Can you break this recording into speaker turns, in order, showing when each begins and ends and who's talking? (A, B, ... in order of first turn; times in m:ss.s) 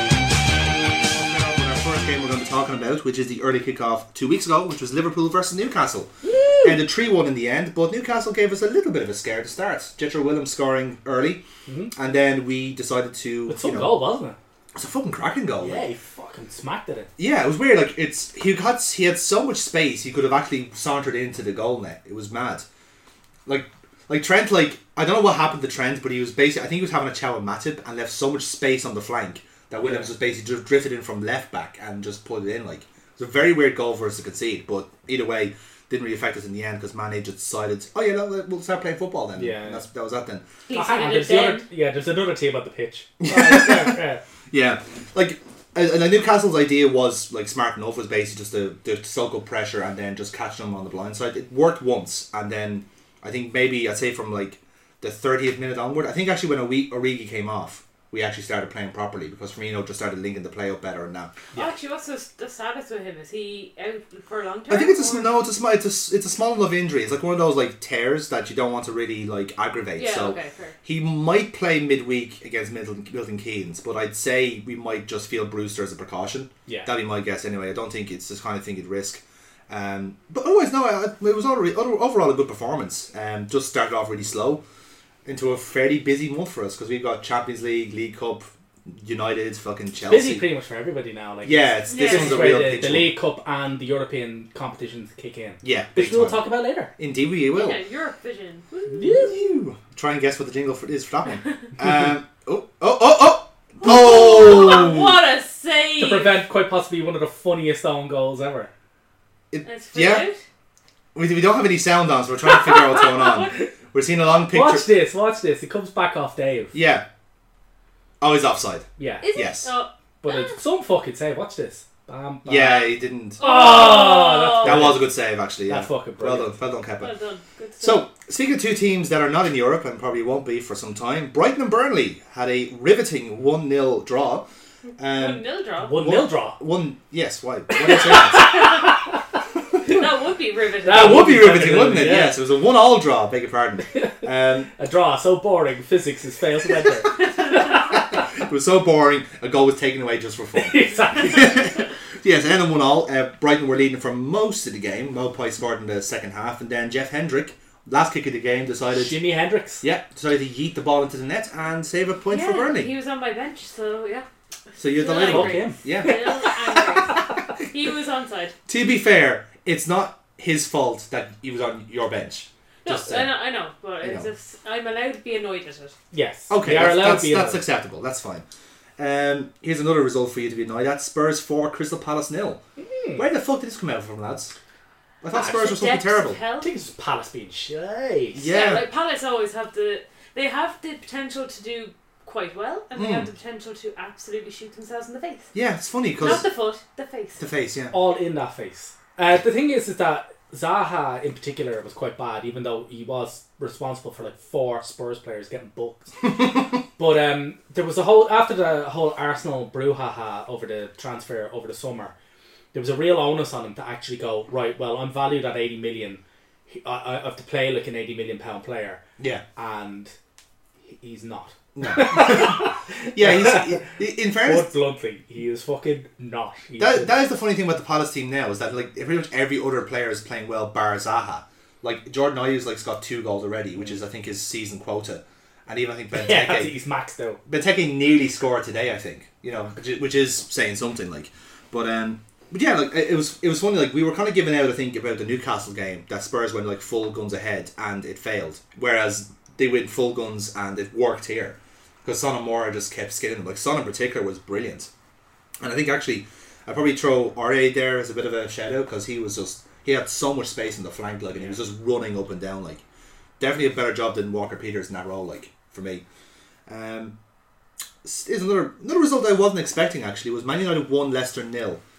0:01.1-0:06.1 A
0:06.2-0:06.8 B
0:06.6-0:11.4 A
0:11.7-0:11.9 B
0:11.9-0:14.0 A
0:13.5-0:14.4 B
0:14.7-0:15.8 A
0:15.6-0:17.1 B
0:17.2-0:22.6 A
0:23.4-0:40.4 A
0:29.8-0:30.1 B
0:39.3-0:39.8 B
0:40.7-0:41.6 C
0:40.7-0:44.2 B
0:43.2-0:44.0 A
0:44.5-1:01.7 A
1:01.5-1:05.3 C
1:04.7-1:24.6 A
1:10.0-1:10.8 C
1:16.7-1:16.9 B
1:25.2-1:30.4 A
1:30.0-1:36.9 B
1:31.4-1:33.1 A
1:31.9-1:32.5 C
1:35.6-1:36.4 A
1:37.0-1:37.8 A
1:37.5-1:38.9 C
1:38.8-1:39.4 B
1:39.0-1:45.2 A
1:43.8-1:46.4 C
1:46.0-1:48.7 B
1:49.5-1:50.3 A
1:49.6-1:50.4 C
1:51.1-1:54.9 A
1:54.5-1:56.8 B
1:56.7-1:57.0 A
1:58.2-1:59.7 A
1:59.0-1:59.2 B
1:59.2-2:00.6 C
2:00.2-2:05.1 B
2:02.4-2:03.4 A
2:03.4-2:04.9 C
2:04.6-2:07.1 A
2:05.6-2:06.5 B
2:07.0-2:08.1 C
2:07.8-2:14.5 A
2:14.8-2:16.1 C
2:15.0-2:18.8 A
2:15.8-2:16.6 B
2:18.0-2:18.9 B
2:18.1-2:18.8 C
2:19.8-2:21.6 C
2:20.8-2:22.4 B
2:20.9-2:24.7 A
2:23.9-2:28.0 B
2:27.6-2:39.2 A
2:30.5-2:31.7 B
2:38.9-2:39.8 B
2:39.8-2:42.9 A
2:42.2-2:48.5 C
2:44.8-2:47.4 A
2:45.2-2:46.3 B
2:48.7-2:53.3 A
2:52.8-2:56.0 C
2:54.0-2:54.3 A
2:56.1-2:57.6 B
2:56.5-2:58.4 A
2:59.0-3:02.6 A
3:02.8-3:03.2 B
3:03.1-3:04.5 A
3:05.2-3:06.4 A
3:05.3-3:06.7 C
3:06.6-3:08.5 B
3:08.3-3:08.8 A
3:08.4-3:15.5 C
3:12.9-3:13.3 A
3:15.5-3:16.4 A
3:16.2-3:17.5 C
3:17.4-3:17.9 A
3:17.9-3:32.1 B
3:32.7-3:39.0 B
3:39.6-3:40.1 B
3:40.8-3:47.1 B
3:41.7-3:44.7 A
3:46.8-3:56.8 A
3:56.1-3:57.4 B
3:57.5-4:14.9 A
4:15.6-4:22.8 A
4:23.4-4:26.0 A
4:26.7-4:27.2 A
4:28.0-4:31.8 A